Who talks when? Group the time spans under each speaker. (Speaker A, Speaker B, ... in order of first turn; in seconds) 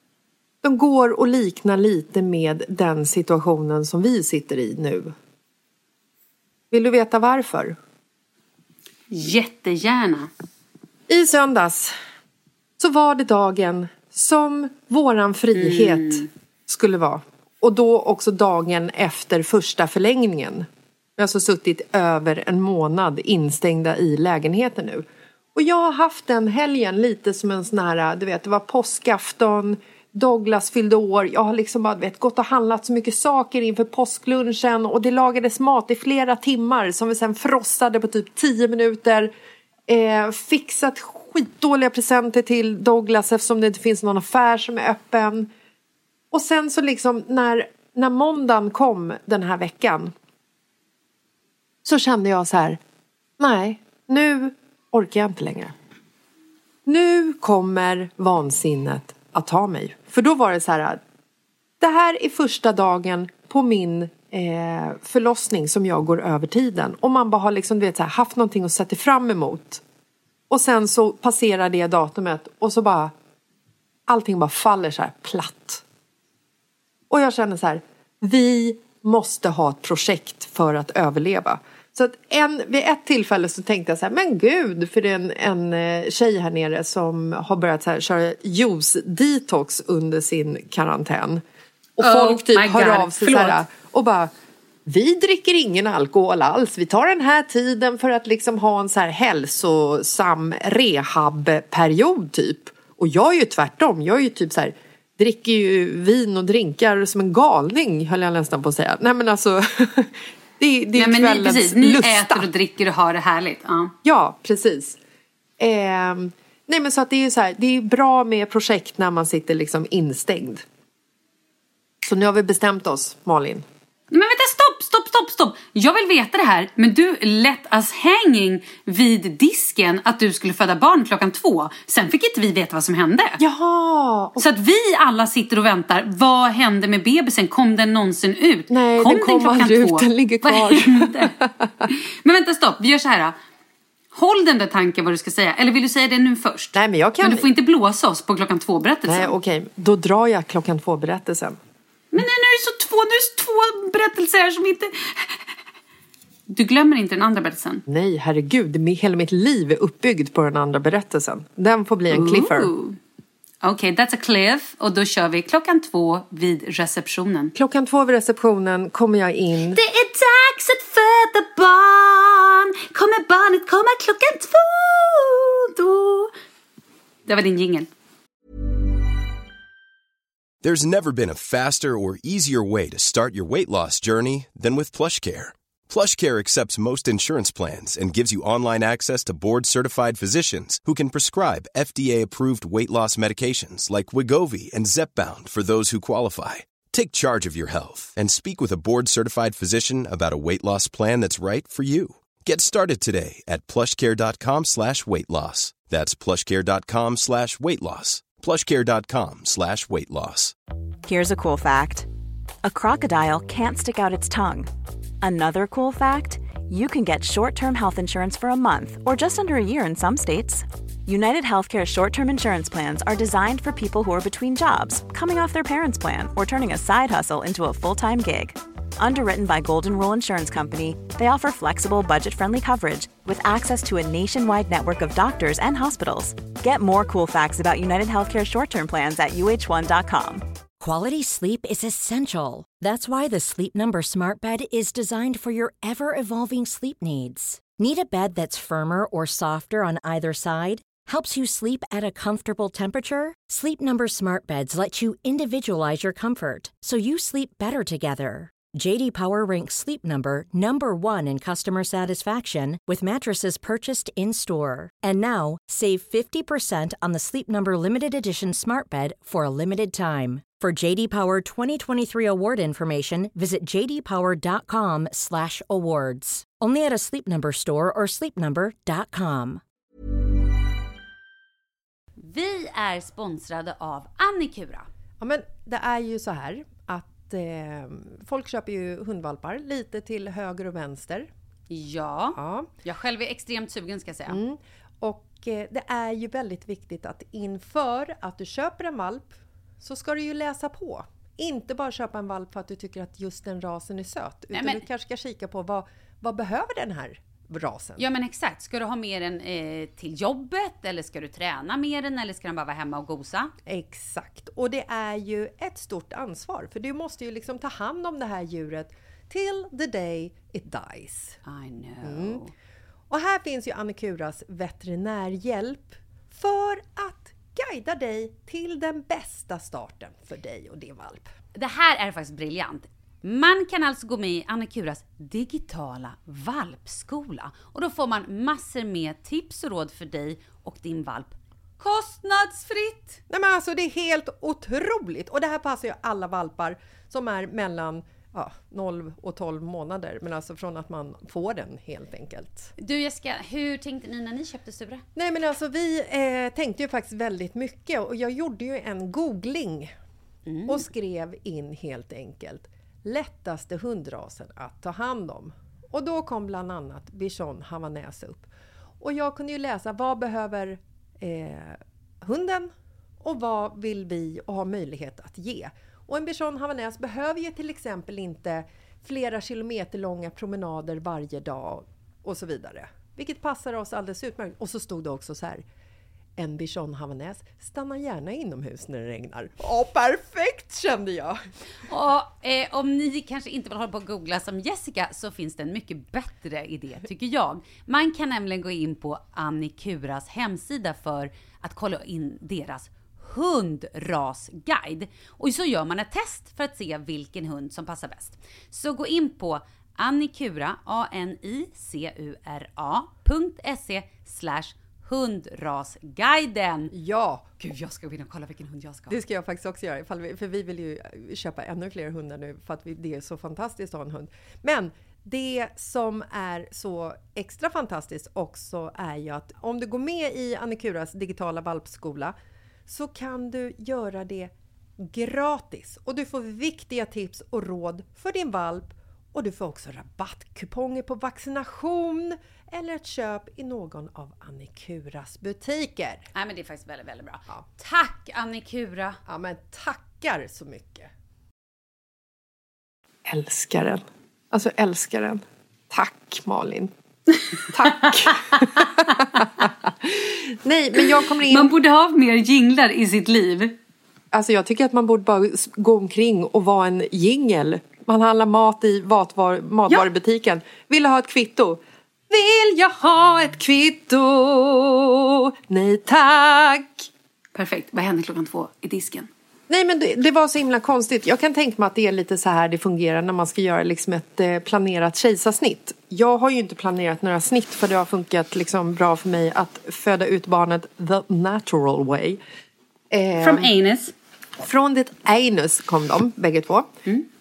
Speaker A: 0.6-5.1, 6.7-7.8, 11.1-11.9, 12.8-39.3, 39.9-45.5, 46.3-50.1, 51.9-52.8, 53.4-55.7, 56.9-61.0, 61.8-69.8, 70.5-73.1, 74.1-75.8, 77.1-91.4, 92.0-94.3, 94.9-112.5, 114.0-115.0, 115.6-120.6, 122.0-123.6, 133.4-134.4, 138.7-141.9, 146.7-147.5, 149.1-151.6, 157.9-162.7, 167.6-169.8, 285.2-291.3, 292.4-292.7, 294.3-308.1, 313.6-321.4, 322.0-322.4, 323.1-331.3, 343.3-352.7, 355.1-359.9, 360.7-368.5, 369.0-372.7, 373.2-385.6, 386.4-391.4, 416.9-417.6, 419.1-432.3, 432.9-446.3, 449.3-451.1, 453.3-456.9, 457.7-461.7, 464.3-477.1, 479.7-492.4, 493.1-493.7, 494.6-496.9
Speaker B: 9.1-10.3, 15.6-16.3, 92.0-93.6, 110.9-113.9, 124.1-133.4, 134.4-141.3, 141.9-143.3, 144.1-149.3, 152.1-155.4, 156.5-157.8, 162.1-163.0, 163.6-167.5, 169.7-176.3, 177.3-177.9, 282.2-284.9, 291.7-294.4, 304.5-304.8, 308.0-313.5, 321.4-322.5, 331.5-343.2, 352.8-355.0, 360.4-360.8, 391.9-416.9, 417.6-419.2, 446.3-449.2, 461.5-463.7, 477.6-479.3, 493.4-494.1
Speaker C: 180.6-210.5
Speaker D: 211.1-212.1, 212.6-214.7, 215.2-240.4
Speaker E: 240.8-279.6